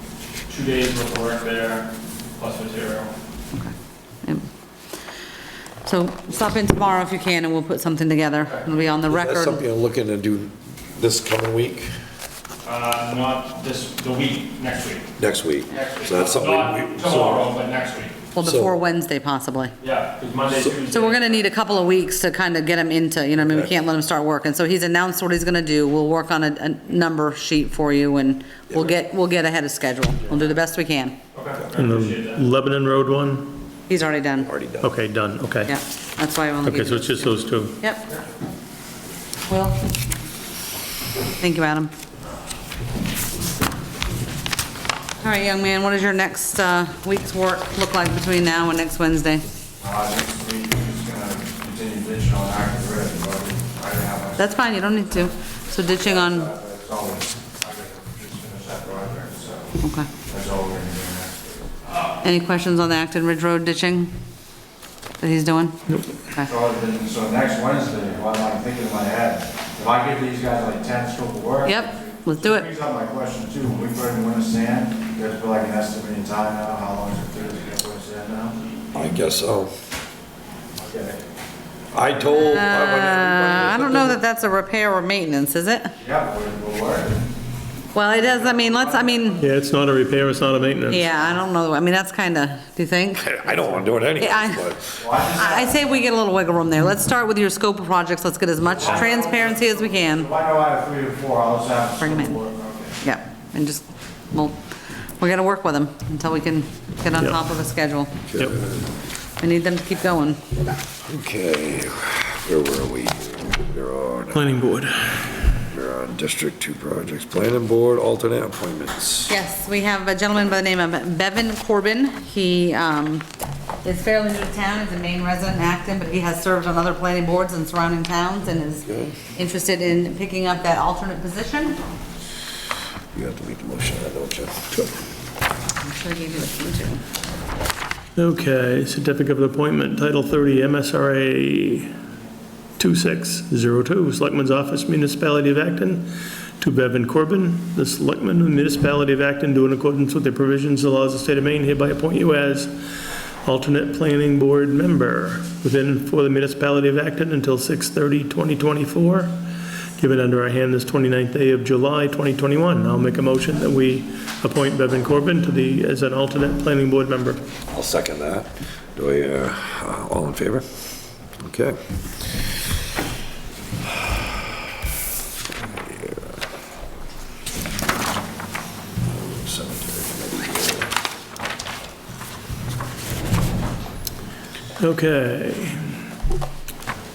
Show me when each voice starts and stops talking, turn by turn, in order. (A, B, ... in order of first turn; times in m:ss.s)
0:00.5-0:03.1 A
0:05.8-0:09.6 B
0:09.1-0:11.9 C
0:12.6-0:15.1 A
0:15.2-0:17.6 C
0:15.7-0:18.2 A
0:18.3-0:19.7 B
0:18.4-0:18.8 C
0:19.8-0:21.6 A
0:20.9-0:31.2 B
0:31.3-0:32.4 A
0:31.8-0:33.6 D
0:33.9-0:34.5 B
0:34.4-0:34.9 C
0:34.8-0:35.7 D
0:35.7-0:38.1 B
0:36.6-0:37.8 D
0:39.5-0:39.9 B
0:41.4-0:41.9 B
0:45.2-0:49.4 B
0:49.8-0:54.8 E
0:54.4-0:56.5 B
0:55.9-1:01.7 E
0:59.8-1:00.1 B
1:02.2-1:04.1 B
1:05.2-1:05.8 B
1:06.4-1:18.6 E
1:11.6-1:12.7 B
1:18.9-1:19.7 C
1:20.8-1:21.2 E
1:21.9-1:24.2 C
1:22.3-1:25.9 B
1:26.0-1:27.2 E
1:27.9-1:29.4 B
1:28.1-1:29.4 E
1:29.4-1:31.0 D
1:30.9-1:34.7 B
1:33.2-1:34.9 C
1:35.0-1:35.9 E
1:35.2-1:40.3 B
1:38.7-1:43.0 E
1:42.0-1:42.4 B
1:43.0-1:44.6 B
1:45.2-1:48.2 B
1:48.3-1:48.6 C
1:49.4-1:50.5 B
1:51.1-1:54.6 C
1:54.3-1:55.3 D
1:55.7-1:59.3 C
1:59.3-2:03.2 B
2:03.8-2:11.8 B
2:08.9-2:09.1 C
2:13.1-2:14.7 C
2:15.8-2:17.0 B
2:18.2-2:21.9 D
2:22.8-2:26.1 D
2:26.6-2:32.7 D
2:33.4-2:39.3 D
2:40.0-2:47.4 D
2:47.7-2:50.6 C
2:51.4-2:51.8 C
2:55.6-2:56.4 C
2:59.0-3:00.9 C
3:04.8-3:06.0 D